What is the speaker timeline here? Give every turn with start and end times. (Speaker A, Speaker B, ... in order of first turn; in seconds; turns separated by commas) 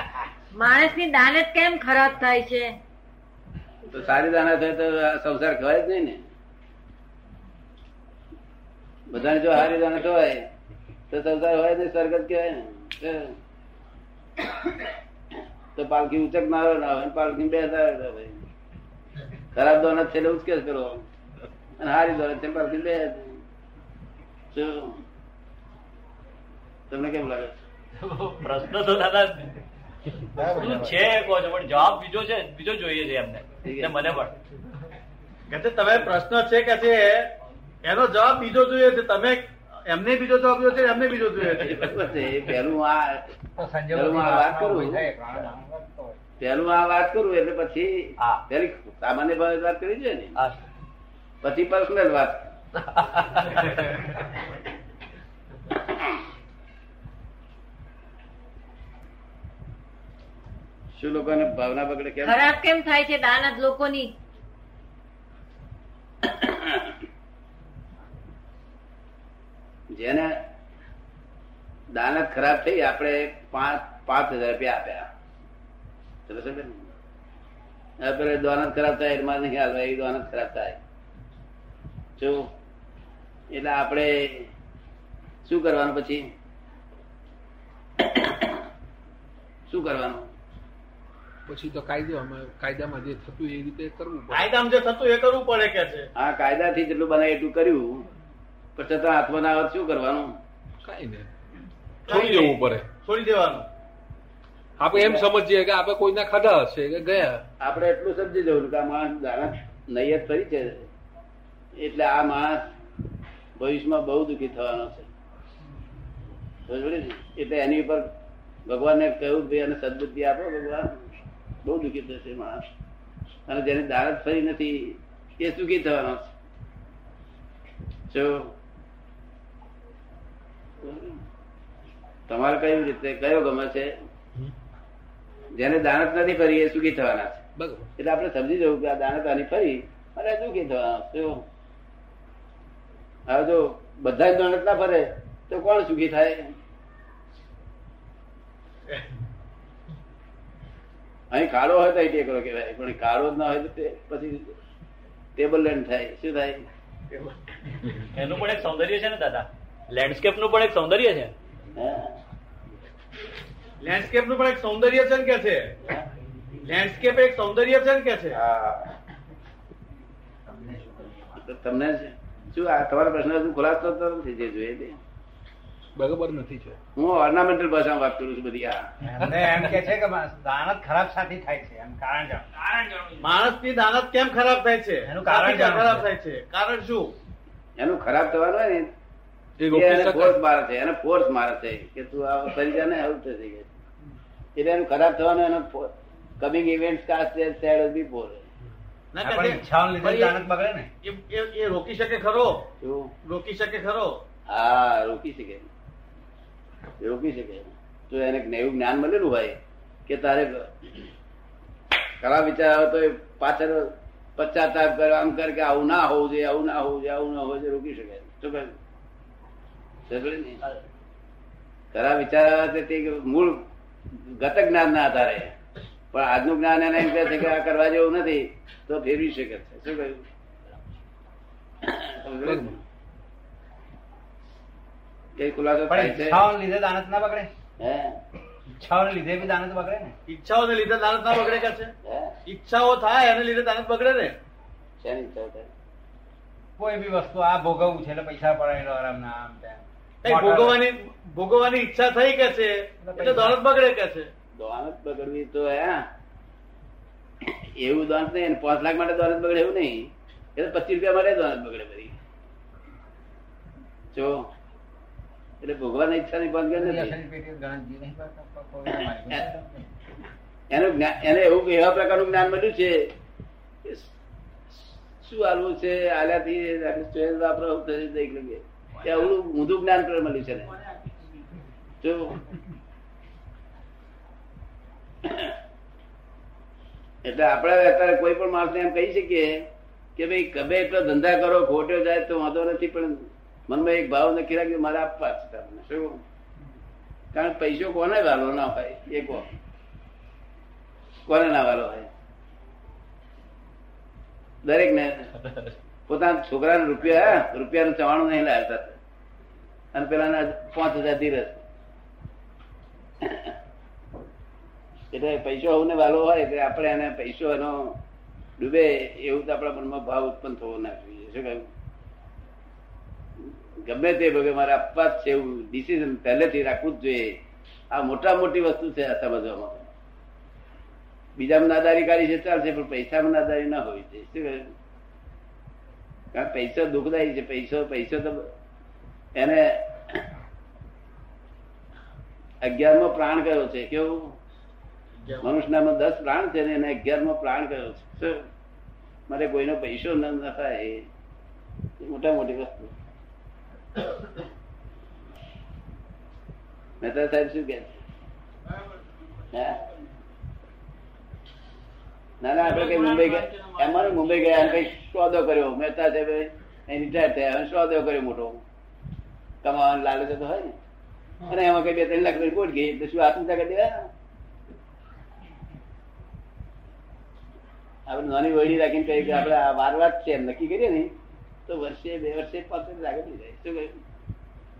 Speaker A: 0.5-2.8, Speaker B: 3.9-6.2, Speaker B: 9.1-10.5, Speaker B: 11.1-13.4, Speaker B: 15.8-18.4, Speaker B: 19.5-21.1, Speaker B: 21.8-23.4, Speaker B: 24.5-25.0, Speaker B: 26.9-27.6, Speaker C: 28.0-29.6, Speaker D: 30.4-31.0, Speaker C: 30.4-34.3, Speaker B: 33.6-34.0, Speaker E: 35.5-37.3, Speaker E: 37.8-41.8, Speaker B: 41.5-43.3, Speaker D: 43.6-46.2, Speaker B: 43.9-45.1, Speaker B: 46.4-50.4, Speaker B: 51.4-52.5, Speaker C: 53.0-53.8, Speaker B: 60.9-62.5, Speaker A: 62.2-64.1, Speaker B: 66.2-67.0, Speaker B: 69.9-70.4, Speaker B: 71.9-75.1, Speaker B: 76.3-76.9, Speaker B: 78.0-80.8, Speaker B: 82.2-82.5, Speaker B: 83.5-84.5, Speaker B: 85.5-86.3, Speaker B: 89.7-90.3, Speaker F: 91.5-94.5, Speaker E: 94.3-96.1, Speaker B: 96.2-98.1, Speaker B: 98.8-100.4, Speaker F: 100.8-101.3, Speaker E: 102.1-103.7, Speaker F: 102.1-102.9, Speaker F: 104.8-107.4, Speaker B: 104.9-105.3, Speaker B: 107.6-110.9, Speaker B: 111.8-112.7, Speaker B: 113.6-115.1, Speaker B: 116.7-118.1, Speaker B: 118.7-121.0, Speaker B: 121.6-122.7, Speaker B: 123.5-126.3, Speaker B: 128.1-128.5, Speaker B: 130.8-131.2, Speaker B: 132.3-133.9, Speaker B: 135.6-137.4, Speaker F: 137.6-137.9, Speaker B: 138.0-141.4, Speaker B: 143.3-146.6, Speaker B: 151.3-154.6, Speaker B: 155.4-156.7, Speaker E: 157.1-157.4, Speaker C: 158.1-161.3, Speaker B: 161.7-162.2, Speaker E: 163.8-165.8, Speaker E: 166.6-168.4, Speaker B: 168.3-168.9, Speaker D: 170.5-171.1, Speaker B: 171.3-175.0, Speaker F: 176.0-176.8, Speaker B: 177.0-178.9, Speaker D: 179.1-182.5, Speaker F: 179.2-179.6, Speaker E: 183.2-187.2, Speaker D: 185.1-186.1, Speaker B: 187.8-188.9, Speaker F: 189.6-190.3, Speaker B: 189.7-193.7, Speaker B: 194.6-198.5, Speaker E: 199.1-200.3, Speaker D: 199.2-200.9, Speaker E: 201.0-202.7, Speaker B: 202.8-203.1, Speaker E: 203.2-204.2, Speaker B: 204.5-205.7, Speaker B: 207.0-211.1, Speaker B: 212.2-218.7, Speaker B: 220.1-220.6, Speaker B: 221.9-225.6, Speaker B: 226.1-230.2, Speaker B: 231.8-232.8, Speaker F: 232.4-232.7, Speaker B: 235.4-236.4, Speaker D: 235.9-237.5, Speaker B: 237.8-238.2, Speaker D: 238.7-240.1, Speaker E: 240.3-241.9, Speaker B: 242.1-242.4, Speaker E: 242.5-244.4, Speaker B: 245.0-245.7, Speaker D: 246.8-250.8, Speaker E: 250.2-254.3, Speaker D: 253.0-253.6, Speaker B: 254.6-256.1, Speaker B: 257.4-262.2, Speaker B: 264.1-264.5, Speaker B: 265.6-267.2, Speaker D: 266.7-269.9, Speaker B: 270.7-273.1, Speaker B: 273.9-274.1, Speaker B: 274.7-280.7, Speaker B: 282.0-282.4, Speaker B: 285.2-285.5, Speaker B: 287.2-296.2, Speaker B: 297.3-299.5, Speaker B: 301.3-302.1, Speaker B: 304.6-305.3, Speaker B: 306.1-309.0, Speaker B: 309.9-311.6, Speaker B: 313.2-313.5, Speaker B: 315.1-318.0, Speaker B: 318.6-321.7, Speaker B: 323.5-327.4, Speaker B: 327.9-329.9, Speaker B: 331.4-334.7, Speaker B: 336.3-338.5, Speaker B: 339.4-340.3, Speaker B: 342.6-344.4, Speaker E: 345.2-345.6, Speaker B: 345.4-348.5, Speaker B: 349.3-351.1, Speaker B: 352.0-352.9, Speaker B: 357.0-358.0, Speaker B: 359.5-359.8, Speaker B: 362.4-368.6, Speaker B: 369.6-370.8, Speaker B: 371.5-374.1, Speaker B: 378.1-381.1, Speaker B: 381.7-383.9